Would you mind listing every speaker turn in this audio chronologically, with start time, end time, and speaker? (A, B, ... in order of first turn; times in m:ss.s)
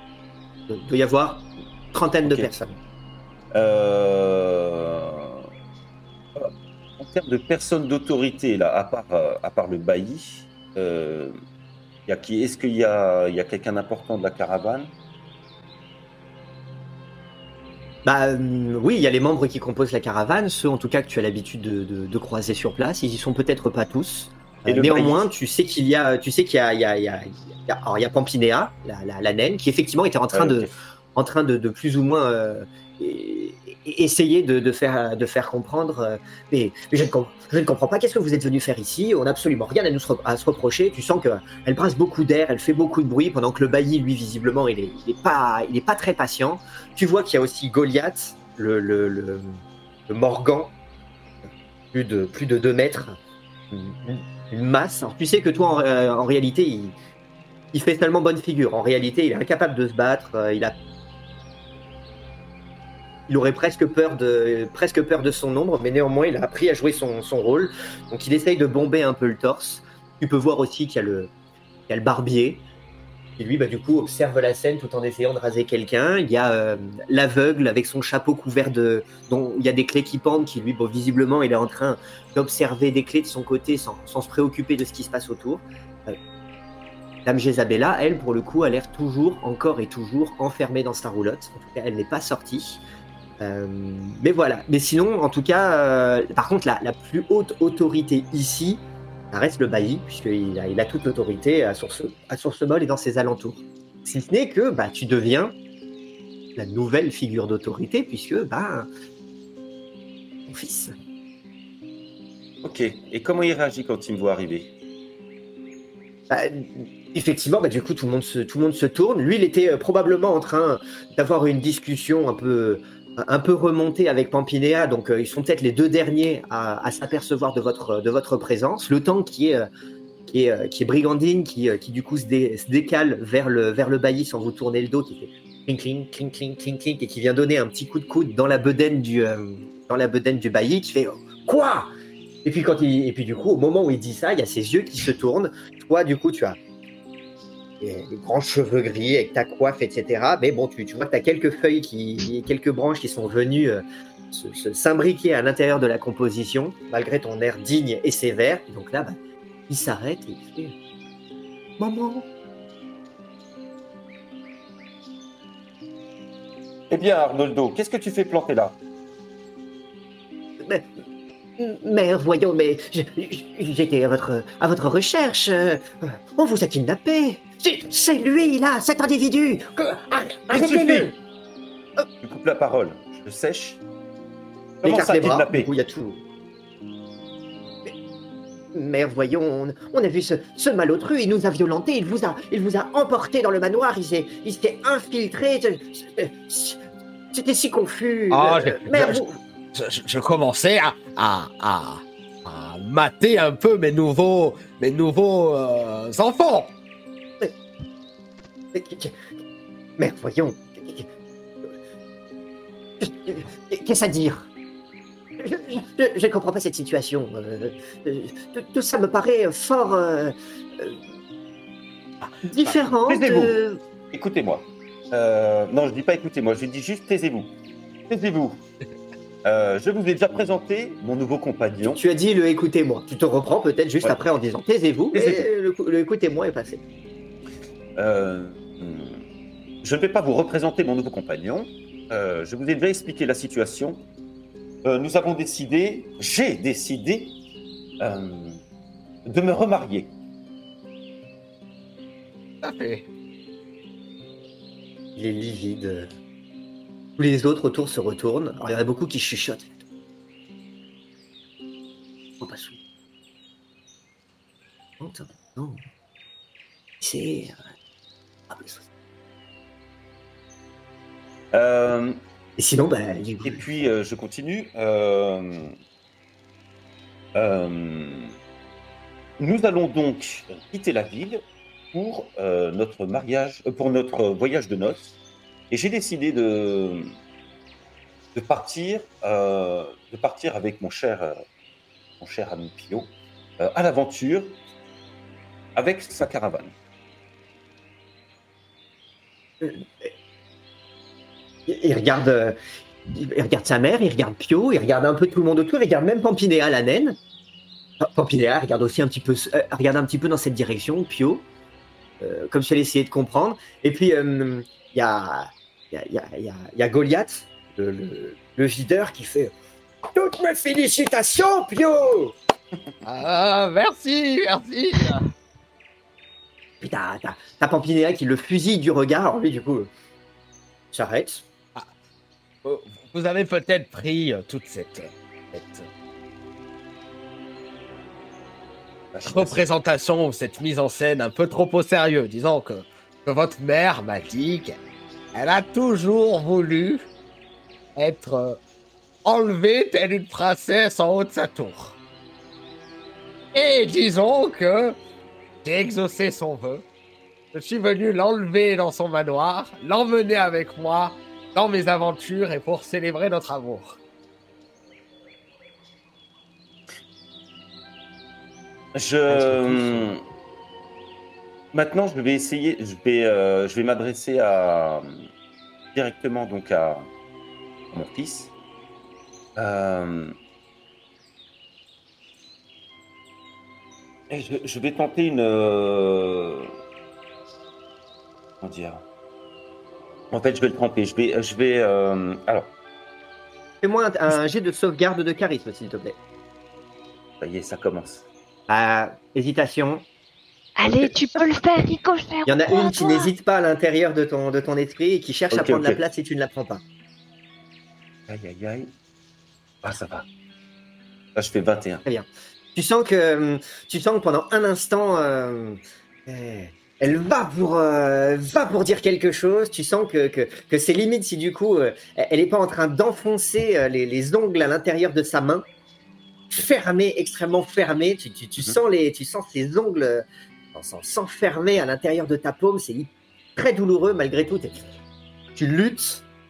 0:00.7-0:02.8 A
0:02.2-0:02.5 B
0:03.5-0:05.5 B
0:06.4-0:11.3 B
0:12.1-0:14.9 B
0:18.0-0:50.7 A
0:24.7-0:25.3 B
0:30.3-0:30.7 B
0:51.5-0:53.2 A
0:53.7-0:57.0 A
0:57.7-1:00.8 A
1:03.3-1:11.3 A
1:11.9-1:12.6 A
1:13.4-1:26.2 A
1:27.2-1:32.8 A
1:33.4-1:45.5 A
1:46.6-1:48.9 A
1:50.5-1:50.9 A
1:52.6-1:54.7 B
1:56.3-2:09.7 A
2:10.3-2:21.9 A
2:22.4-2:26.6 A
2:27.8-2:39.2 A
2:39.7-2:40.7 A
2:41.8-2:42.3 A
2:46.9-2:48.8 B
2:50.6-2:50.9 A
2:51.6-3:01.2 A
3:00.5-3:01.1 B
3:02.2-3:03.8 B
3:04.8-3:05.7 B
3:04.8-3:06.2 A
3:08.7-3:16.8 A
3:17.3-3:19.4 A
3:18.3-3:26.7 C
3:28.7-3:29.2 A
3:30.0-3:31.1 A
3:33.0-3:34.5 A
3:35.4-3:41.0 A
3:42.4-3:43.8 A
3:42.6-3:43.6 B
3:44.1-3:47.6 B
3:48.1-3:48.6 B
3:49.4-3:52.0 B
3:51.8-3:56.8 A
3:55.1-3:55.5 B
3:58.0-3:59.2 B
3:59.8-4:04.1 B
4:04.8-4:07.4 B
4:08.0-4:08.6 B
4:09.3-4:10.1 B
4:12.6-4:13.0 C
4:15.2-4:16.1 A
4:17.2-4:19.8 A
4:22.4-4:22.8 A
4:25.0-4:25.8 A
4:27.0-4:27.6 A
4:28.5-4:28.8 A
4:31.5-4:32.2 B
4:32.6-4:33.6 A
4:33.4-4:35.8 B
4:37.4-4:38.4 B
4:39.4-4:45.1 B
4:45.7-4:47.2 B
4:48.4-4:51.4 B
4:52.2-4:54.6 B
4:55.8-4:56.7 B
4:59.6-5:00.1 A
5:01.7-5:07.2 A
5:08.0-5:11.5 A
5:12.2-5:22.3 A
5:23.0-5:25.2 C
5:26.8-5:29.9 A
5:30.9-5:31.4 A
5:32.6-5:35.9 C
5:39.1-5:39.7 B
5:39.2-5:44.8 C
5:45.3-5:47.0 C
5:48.0-5:48.6 C
5:49.2-5:52.0 C
5:53.5-5:55.0 C
5:55.6-5:56.8 C
5:57.5-6:04.0 C
6:09.0-6:10.2 B
6:09.3-6:10.1 A
6:11.7-6:15.2 B
6:16.0-6:17.1 B
6:17.9-6:18.5 B
6:19.6-6:20.4 B
6:24.3-6:26.7 B
6:28.6-6:29.0 B
6:30.3-6:32.7 B
6:33.8-6:36.2 A
6:37.4-6:38.3 B
6:38.7-6:40.0 A
6:40.8-6:43.3 D
6:40.8-6:41.1 B
6:42.5-6:46.8 A
6:45.5-6:46.0 B
6:48.3-6:48.9 B
6:49.8-6:50.3 B
6:51.4-6:52.0 B
6:52.1-7:05.7 A
7:06.5-7:14.8 A
7:15.6-7:16.2 A